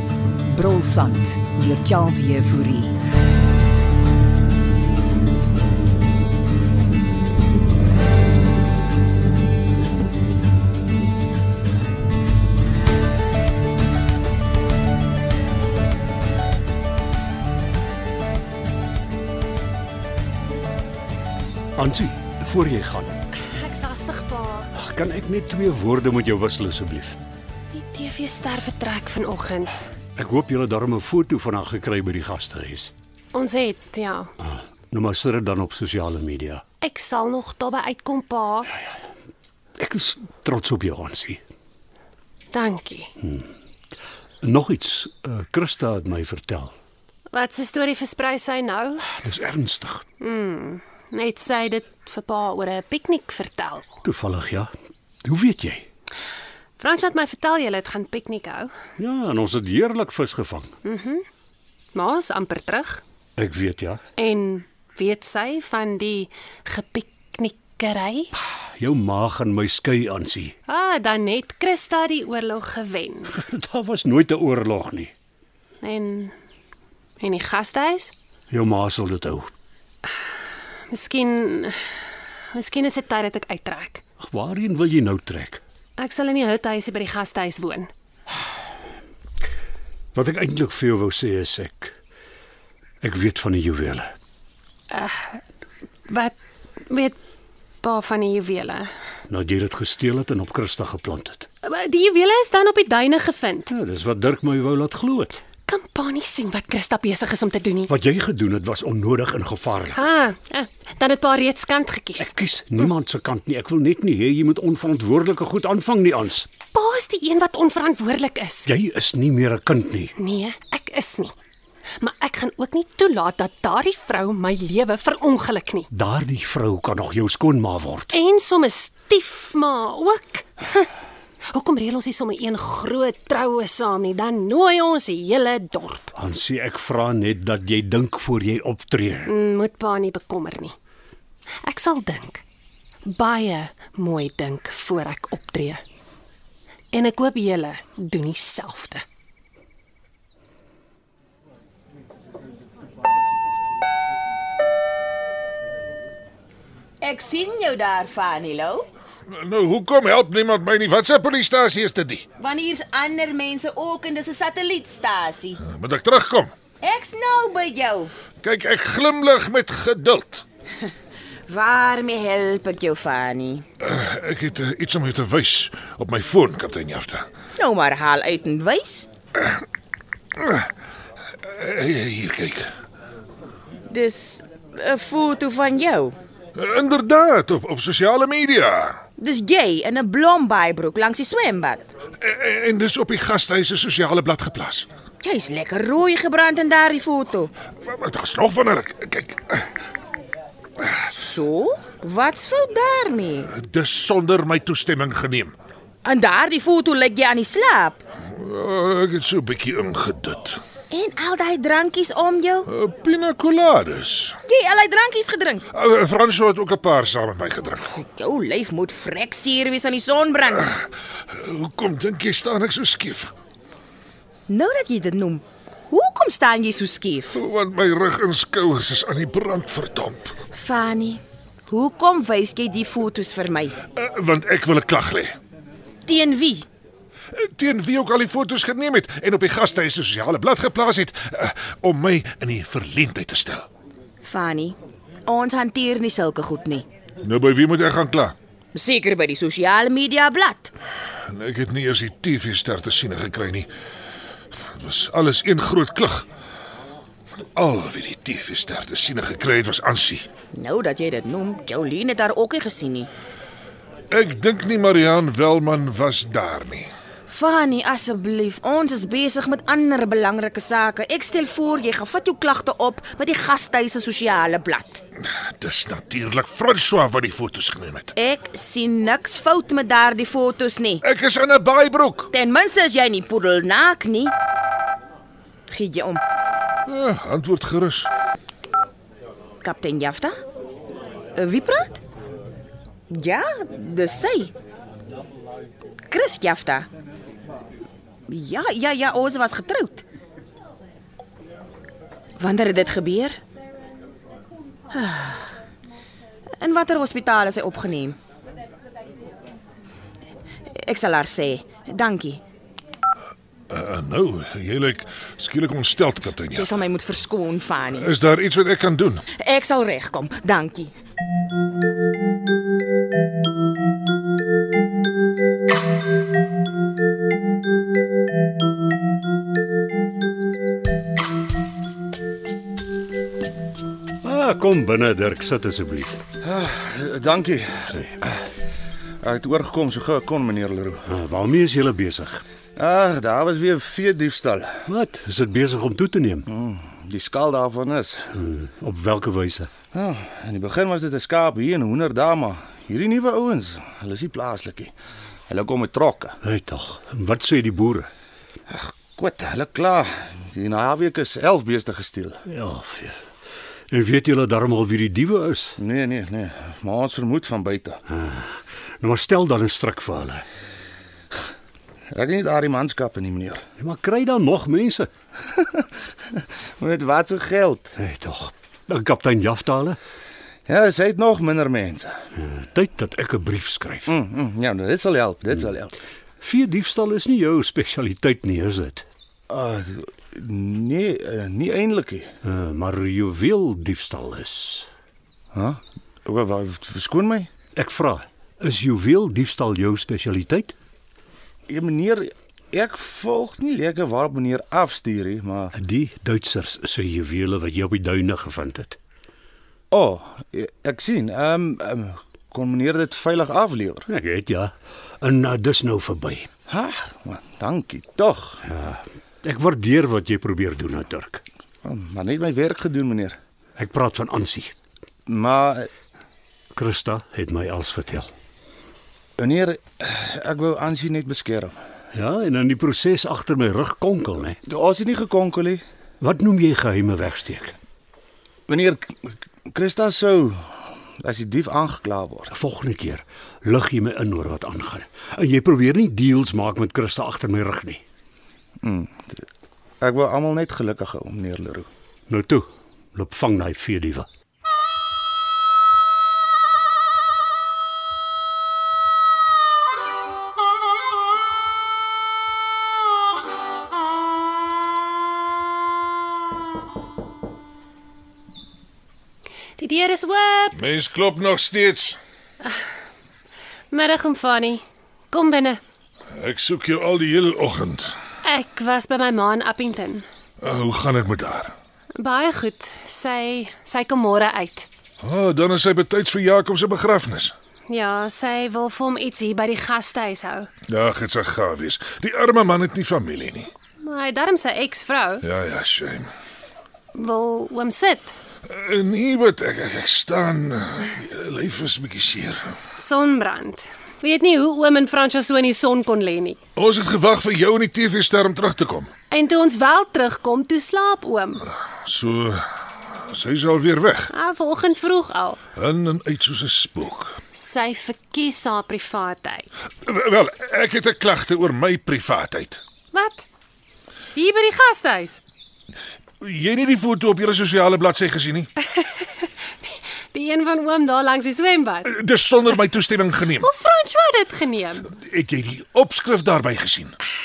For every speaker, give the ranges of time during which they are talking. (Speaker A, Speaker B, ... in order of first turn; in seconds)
Speaker A: 0.5-3.0
Speaker B: 21.8-23.2, 24.7-27.2, 30.2-32.9, 34.4-36.6, 39.8-41.4, 43.2-43.5, 44.4-46.8, 49.2-50.0, 54.0-54.7, 55.2-55.9, 59.0-60.8, 63.4-64.0, 68.5-70.6, 73.3-75.1, 78.5-79.5, 84.2-85.6, 90.1-92.0, 93.0-94.1, 99.3-101.5, 103.7-105.4, 107.9-110.0, 112.2-116.5, 118.7-120.1, 125.9-128.1, 136.1-139.3, 334.2-336.2, 341.1-342.4, 344.9-346.5, 348.3-349.7, 356.4-358.1, 362.5-363.2, 363.9-365.8, 368.1-370.4, 373.8-375.1, 378.0-380.0, 382.4-384.1, 386.4-389.1, 392.4-394.9, 397.8-400.8, 405.8-409.0, 414.1-416.5, 418.6-421.4, 423.8-424.7, 426.7-428.3, 432.1-434.6, 436.2-437.8, 442.5-448.0, 452.3-454.3
Speaker C: 23.4-24.7, 27.7-29.8, 33.3-34.3, 36.8-38.7, 42.5-43.1, 47.3-49.1, 50.2-54.0, 56.8-58.7, 60.8-61.2, 61.9-63.0, 64.2-68.3, 70.7-73.4, 75.8-76.3, 77.2-78.1, 80.9-81.9, 82.5-84.0, 86.0-87.9, 94.9-95.4, 96.1-96.3, 96.9-97.2, 97.8-98.9, 101.6-103.7, 105.7-107.9, 109.9-112.3, 116.7-118.7, 120.2-121.3, 122.0-125.9, 128.1-130.9, 131.5-136.1, 139.2-140.8, 141.7-142.4, 143.1-145.8, 146.9-149.0, 469.8-470.8, 473.9-475.8, 478.4-480.3, 482.2-484.9, 487.9-490.7, 494.0-495.4, 497.1-498.4, 503.0-506.6, 509.3-511.7, 514.3-515.6, 517.5-519.7, 523.1-523.4, 524.4-525.4, 528.9-532.1, 533.6-535.1
Speaker D: 157.0-158.9, 162.4-165.6, 166.8-168.1, 171.5-173.7, 177.6-179.1, 183.9-186.2, 189.2-191.9, 195.2-197.5, 201.1-203.5, 206.0-208.0, 210.9-212.7, 214.5-215.7, 217.9-220.7, 224.5-227.4, 230.5-233.8, 236.1-236.7, 244.2-246.9, 248.7-250.7, 260.5-263.1, 267.3-275.0, 278.2-281.0, 282.3-284.3, 285.7-286.2, 289.6-290.4, 291.4-292.0, 293.1-294.5, 296.1-296.9, 298.3-300.0, 302.4-303.4, 304.9-305.5, 306.6-308.2, 310.8-312.4, 316.5-318.1, 319.4-320.9
Speaker E: 159.3-162.3, 165.6-166.5, 168.4-170.4, 173.8-177.3, 180.4-180.7, 181.4-182.7, 186.6-189.0, 192.2-194.9, 197.9-199.7, 203.5-205.6, 208.3-210.6, 212.7-214.4, 215.7-217.9, 220.6-223.3, 227.3-230.3, 233.9-235.4, 237.3-243.7, 247.2-248.4, 251.3-253.7, 254.5-256.3, 257.6-260.3, 264.1-266.9, 275.4-278.1, 281.0-282.3, 286.9-288.1, 313.7-316.7, 317.9-319.3, 470.7-472.2, 476.3-478.2, 480.6-481.7, 485.2-487.5, 490.9-493.7, 495.4-496.3, 498.6-502.8, 506.8-509.1, 512.0-514.3, 515.8-517.4, 520.1-522.8, 526.4-528.7, 532.0-533.7, 535.1-537.2
Speaker F: 336.4-338.3, 339.2-341.1, 342.8-344.8, 346.5-348.3, 349.9-354.9, 355.5-356.4, 358.7-362.4, 365.8-368.0, 372.1-373.6, 376.8-377.9, 380.7-382.2, 384.1-385.9, 389.5-392.3, 395.5-397.5, 401.7-405.8, 409.9-414.1, 416.7-418.6, 421.8-423.4, 425.3-425.9, 429.4-431.8, 434.6-435.8, 438.7-442.5, 448.8-449.4, 450.0-451.9